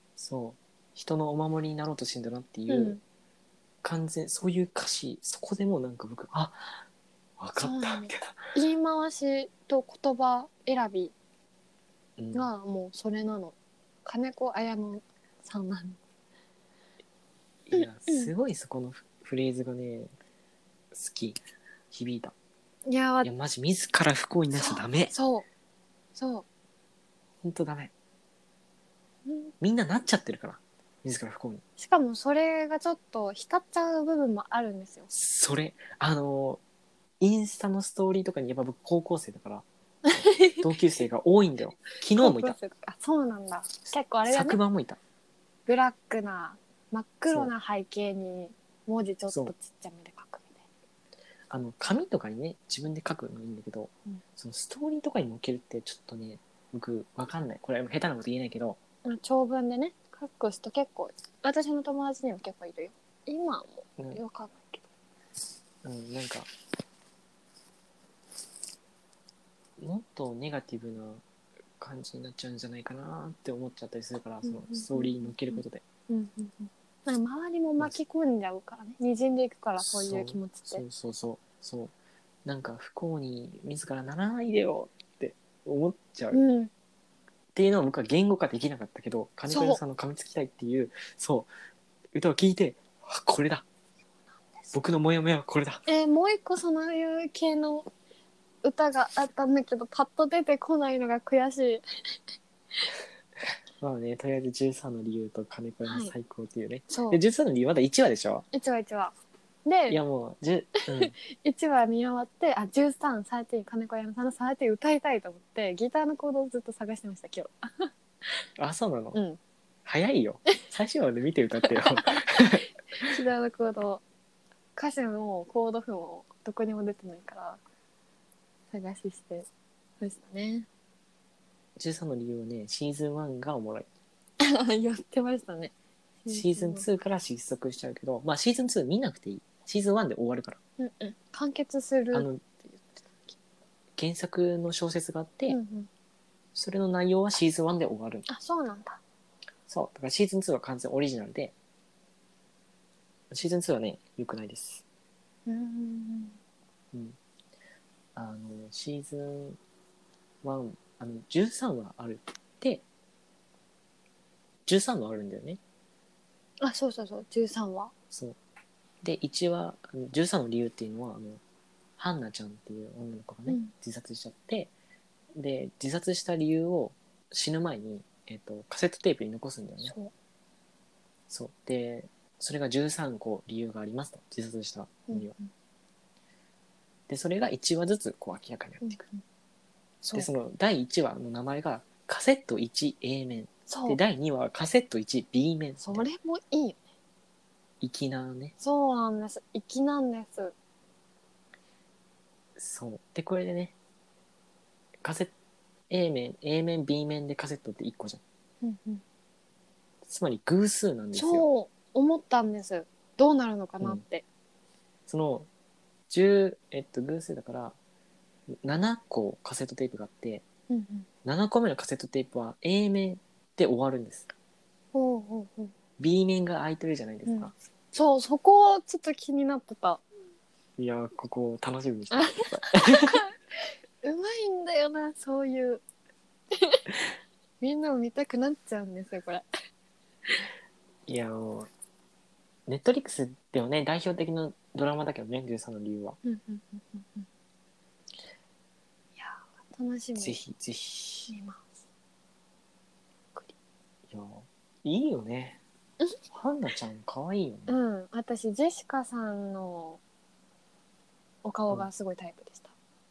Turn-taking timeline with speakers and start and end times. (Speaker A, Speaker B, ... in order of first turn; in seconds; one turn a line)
Speaker A: 0.2-3.0
Speaker B: 2.7-3.0
Speaker A: 3.8-6.8
Speaker A: 7.4-8.5
Speaker B: 7.6-11.1
Speaker A: 12.2-12.5
Speaker B: 12.3-16.0
Speaker A: 17.7-20.1
Speaker B: 17.7-18.3
Speaker A: 20.9-21.4
Speaker A: 21.9-22.3
Speaker B: 22.9-23.3
Speaker A: 23.2-25.1
Speaker B: 24.5-25.4
Speaker B: 26.1-26.4
Speaker A: 27.4-27.9
Speaker B: 29.2-29.5
Speaker A: 29.6-31.6
Speaker B: 31.8-35.1
Speaker A: 35.1-36.6
Speaker A: 37.2-39.6
Speaker B: 40.0-40.7
Speaker A: 40.6-42.6
Speaker B: 42.1-44.6
Speaker A: 44.2-45.0
Speaker B: 45.6-50.6
Speaker A: 49.3-49.5
Speaker A: 51.5-58.8
Speaker B: 59.0-64.8
Speaker A: 65.8-66.5
Speaker A: 69.8-71.2
Speaker A: 71.8-75.8
Speaker B: 74.4-80.8
Speaker A: 79.8-81.9
Speaker A: 82.4-86.4
Speaker B: 86.3-86.7
Speaker A: 87.5-91.5
Speaker B: 89.5-89.8
Speaker A: 92.1-93.6
Speaker A: 94.7-95.8
Speaker B: 95.9-97.9
Speaker B: 98.6-101.8
Speaker A: 103.8-108.5
Speaker B: 105.8-106.1
Speaker B: 106.9-107.2
Speaker B: 108.5-109.1
Speaker B: 109.6-110.0
Speaker A: 109.9-111.1
Speaker B: 110.8-118.4
Speaker A: 118.6-119.2
Speaker B: 119.1-119.4
Speaker A: 119.8-123.2
Speaker B: 121.6-124.0
Speaker B: 124.8-127.6
Speaker B: 128.7-129.5
Speaker B: 130.0-130.7
Speaker A: 131.8-133.9
Speaker B: 134.4-135.7
Speaker B: 136.2-136.9
Speaker A: 136.3-140.6
Speaker B: 140.8-143.3
Speaker A: 142.1-142.4
Speaker A: 144.0-145.6
Speaker B: 145.5-145.9
Speaker A: 146.5-148.2
Speaker B: 148.3-149.0
Speaker A: 149.7-151.5
Speaker A: 153.3-154.8
Speaker B: 155.4-156.4
Speaker A: 158.1-159.6
Speaker A: 160.4-162.8
Speaker A: 164.7-165.6
Speaker B: 166.6-167.9
Speaker A: 168.1-168.4
Speaker A: 169.0-171.4
Speaker A: 172.0-174.7
Speaker B: 173.5-173.7
Speaker A: 175.3-179.9
Speaker B: 179.8-180.1
Speaker A: 181.3-185.3
Speaker B: 185.1-185.5
Speaker A: 187.1-189.0
Speaker B: 188.8-189.2
Speaker B: 190.0-190.3
Speaker A: 190.1-196.1
Speaker B: 193.7-194.0
Speaker B: 195.8-196.8
Speaker A: 197.8-198.5
Speaker B: 198.6-200.5
Speaker A: 202.6-203.7
Speaker A: 205.0-205.3
Speaker A: 205.9-208.2
Speaker B: 208.6-209.0
Speaker A: 210.0-211.4
Speaker B: 211.1-214.2
Speaker A: 215.1-215.5
Speaker A: 216.1-217.8
Speaker A: 218.5-220.4
Speaker B: 220.7-221.1
Speaker A: 221.2-224.3
Speaker B: 224.9-225.7
Speaker A: 226.0-227.5
Speaker B: 227.2-230.0
Speaker A: 230.8-233.2
Speaker B: 232.1-233.3
Speaker B: 234.0-235.8
Speaker B: 236.5-236.8
Speaker B: 237.6-239.4
Speaker A: 241.1-241.7
Speaker A: 242.7-246.2
Speaker B: 246.2-247.3
Speaker B: 249.2-250.4
Speaker A: 250.2-251.3
Speaker B: 251.3-251.8
Speaker A: 254.1-255.6
Speaker A: 256.3-257.7
Speaker B: 257.7-260.0
Speaker B: 261.4-262.7